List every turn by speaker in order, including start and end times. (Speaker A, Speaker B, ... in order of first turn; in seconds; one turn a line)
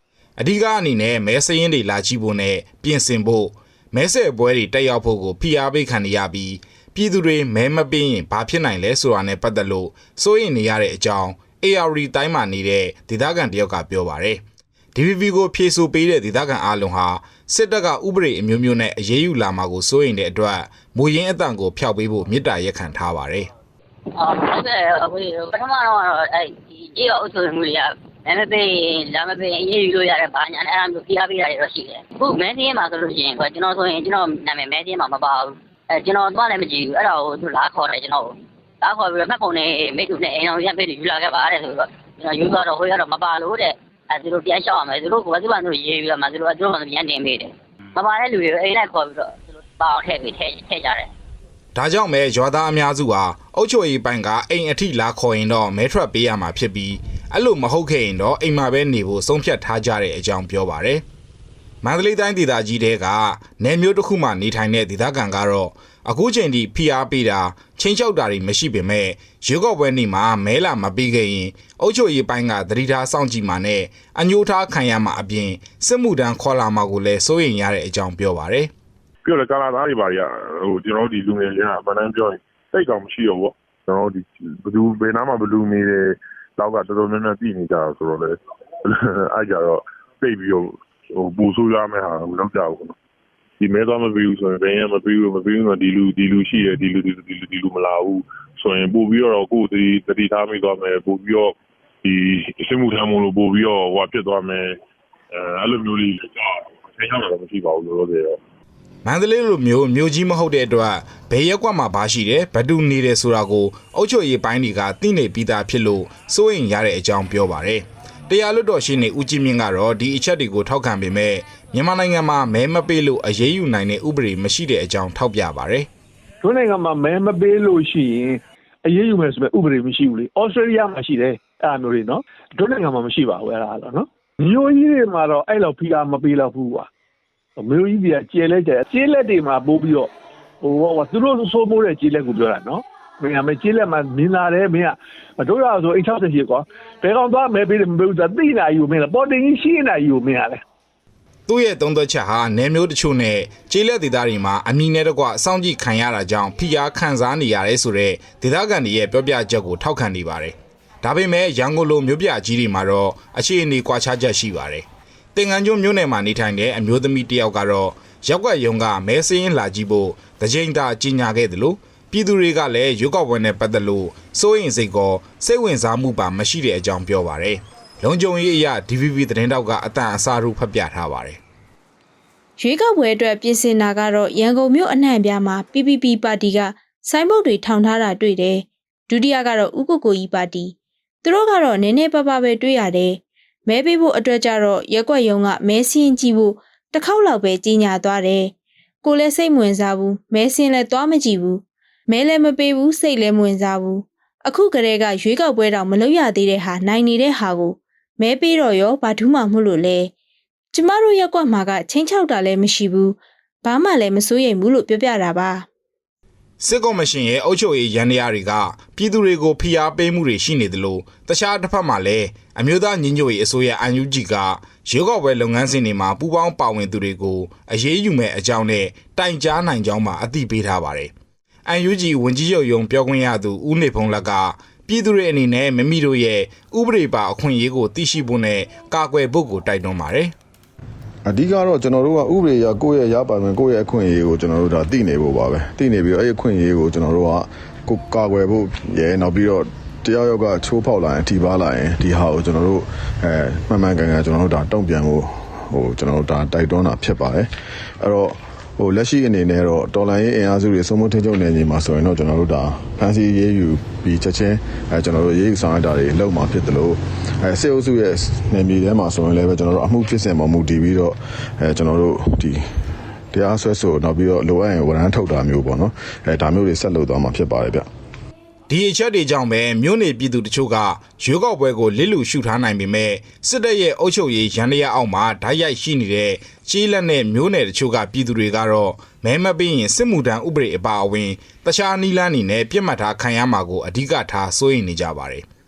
Speaker A: 0.4-14.4
Speaker A: 14.9-23.5
Speaker B: 24.1-51.1
Speaker A: 51.8-61.0
Speaker A: 61.8-78.7
Speaker C: 79.2-93.0
Speaker C: 93.6-104.8
Speaker C: 105.3-108.4
Speaker A: 109.0-125.9
Speaker D: 126.4-136.9
Speaker D: 137.6-140.1
Speaker D: 140.6-150.6
Speaker A: 151.5-181.4
Speaker E: 182.6-198.5
Speaker E: 199.0-210.1
Speaker E: 210.7-215.7
Speaker A: 216.6-231.1
Speaker A: 231.7-240.3
Speaker F: 241.3-257.5
Speaker F: 258.0-272.6
Speaker F: 273.3-277.9
Speaker A: 278.7-295.4